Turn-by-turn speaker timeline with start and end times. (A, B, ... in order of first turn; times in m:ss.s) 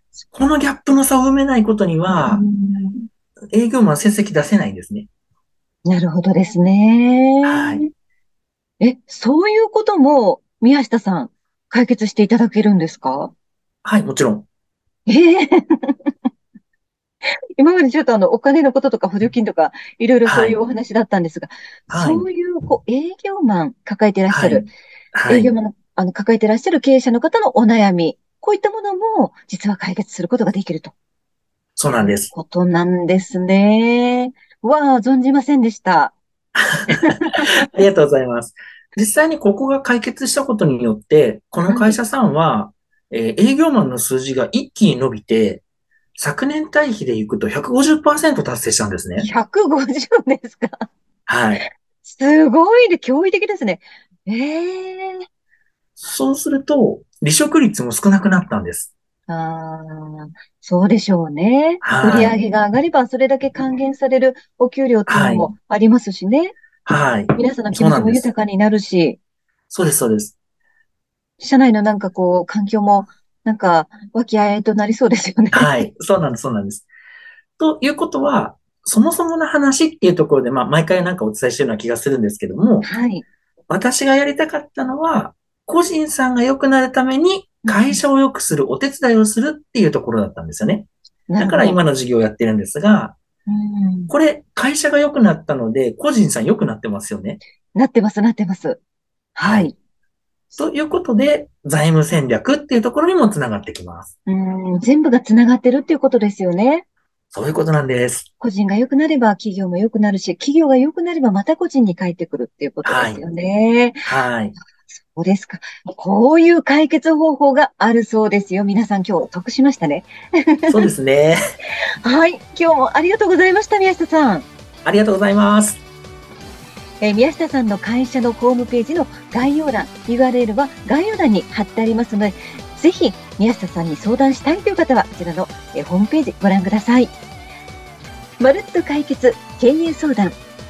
0:00.3-0:02.4 A
0:02.2-0:03.1 B
0:03.5-0:05.1 A
0:05.8-0:07.9 B
0:07.4-0:07.9 A
0:08.8-0:13.3 B
0:13.8-0:14.5 A
0:15.1-0:16.1 B
0:17.6-0:24.7 B
0:20.2-0:20.6 A
0:21.9-0:22.3 A
0:24.3-0:25.5 A
0:25.3-0:30.9 B
0:31.8-0:32.3 A
0:31.9-0:36.2 B
0:36.6-0:45.6 A
0:36.9-0:37.5 B
0:41.7-0:42.0 B
0:46.2-0:49.3 A
0:49.2-0:50.9 B
0:51.3-0:51.6 A
0:52.0-0:55.2 B
0:56.0-0:58.9 A
0:59.3-1:06.6 B
1:01.8-1:02.4 A
1:05.1-1:05.5 A
1:06.8-1:08.3 A
1:07.4-1:09.2 B
1:09.7-1:10.4 A
1:11.4-1:15.9 B
1:15.5-1:16.9 A
1:17.6-1:22.9 A
1:22.8-1:23.2 B
1:23.7-1:30.9 A
1:27.7-1:28.0 B
1:31.3-1:31.8 B
1:31.4-1:33.2 A
1:33.5-1:34.1 B
1:34.1-1:37.4 A
1:37.8-1:38.8 B
1:39.4-1:39.7 B
1:39.4-1:39.7 A
1:40.6-1:44.1 A
1:44.3-1:46.8 B
1:47.3-1:48.3 A
1:48.4-1:54.0 B
1:52.8-1:53.2 A
1:54.1-1:54.6 A
1:54.9-2:00.8 B
2:00.7-2:01.4 A
2:02.0-2:04.5 B
2:04.8-2:05.8 A
2:07.0-2:17.1 B
2:18.4-2:20.4 B